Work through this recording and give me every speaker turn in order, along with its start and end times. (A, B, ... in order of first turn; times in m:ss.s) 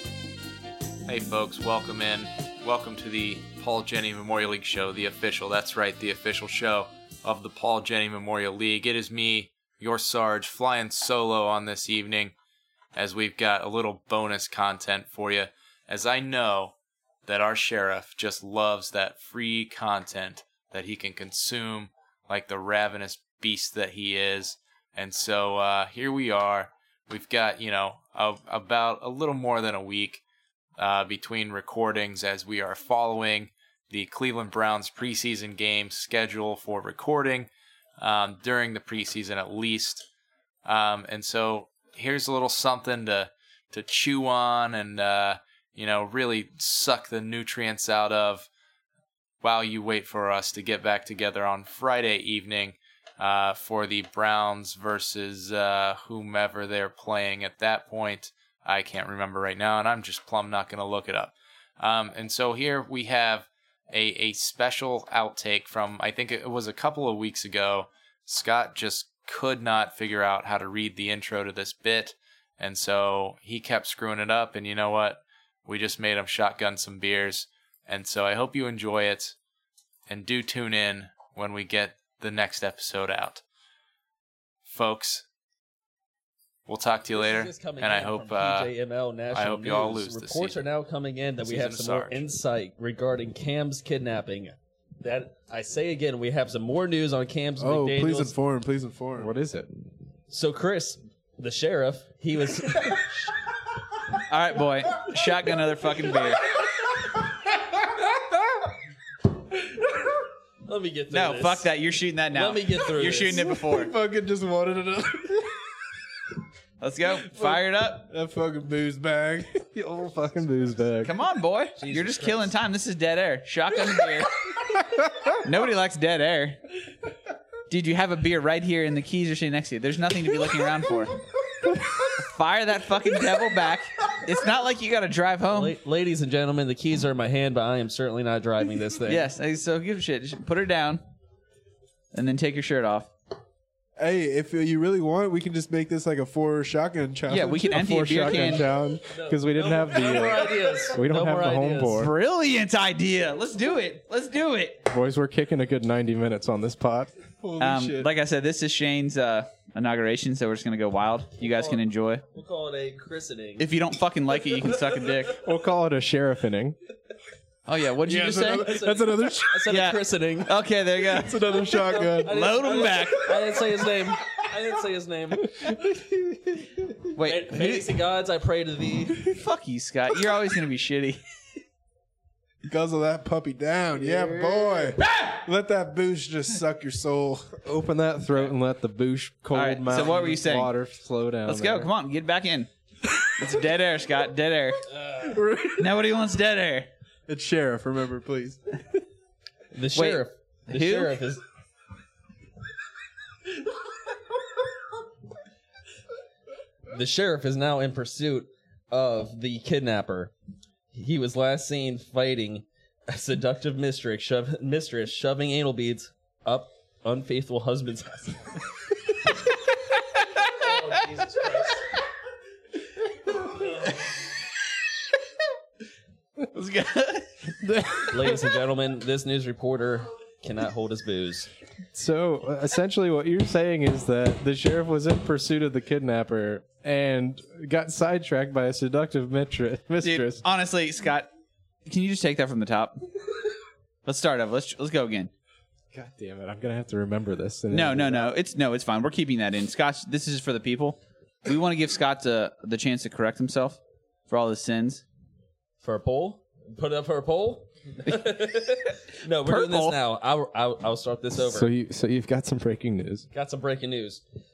0:01.1-0:12.3 A
0:13.0-0:16.8 A
0:17.3-0:30.2 A
0:30.8-0:40.1 A
0:40.6-0:48.5 A
0:49.4-1:19.4 A
1:20.1-1:23.4 A
1:24.6-1:25.3 A
1:26.7-1:28.7 A
1:27.1-1:38.4 B
1:29.3-1:30.6 A
1:31.4-1:32.2 A
1:37.6-1:39.3 C
1:39.2-1:39.7 D
1:40.3-1:43.3 B
1:44.3-1:46.4 E
1:47.9-1:48.4 C
1:50.7-1:51.7 B
1:51.1-1:53.9 E
1:52.3-1:53.4 B
1:53.2-1:55.7 C
1:56.8-1:58.1 E
1:57.4-1:59.7 C
1:59.7-2:01.2 D
2:01.0-2:04.3 E
2:01.8-2:02.6 B
2:05.4-2:06.6 E
2:07.7-2:11.2 E
2:12.1-2:15.8 E
2:15.5-2:19.3 B
2:19.1-2:21.0 E
2:22.1-2:23.1 E
2:24.0-2:29.0 C
2:27.3-2:28.7 E
2:27.7-2:32.1 D
2:29.1-2:32.1 B
2:32.0-2:34.8 E
2:34.9-2:37.2 D
2:37.4-2:38.1 C
2:37.6-2:42.2 E
2:41.4-2:43.7 B
2:43.6-2:45.4 E
2:45.4-2:46.8 D
2:47.7-2:48.8 E
2:48.0-2:49.7 C
2:48.6-2:50.5 B
2:49.7-2:51.6 E
2:51.2-2:53.1 C
2:51.8-2:55.7 B
2:52.3-2:53.6 E
2:57.1-2:57.9 E
2:57.2-2:59.2 B
2:59.3-3:01.2 E
3:02.6-3:07.6 C
3:04.1-3:04.7 E
3:07.6-3:11.9 D
3:09.5-3:10.8 E
3:11.4-3:12.7 E
3:13.4-3:14.8 E
3:15.0-3:15.3 B
3:15.2-3:15.9 C
3:15.8-3:16.9 E
3:17.3-3:18.8 C
3:19.7-3:21.4 B
3:20.0-3:21.2 E
3:26.9-3:30.3 B
3:30.9-3:38.6 B
3:40.2-3:41.6 E
3:41.0-3:41.4 B
3:46.5-3:47.5 E
3:48.1-3:51.5 B
3:51.9-4:00.4 D
4:00.0-4:01.3 E
4:01.9-4:03.0 E
4:04.0-4:05.3 E
4:05.9-4:08.3 D
4:07.7-4:15.0 E
4:15.8-4:21.7 B
4:18.0-4:18.9 E
4:19.4-4:20.0 E
4:21.4-4:23.3 D
4:23.3-4:24.2 B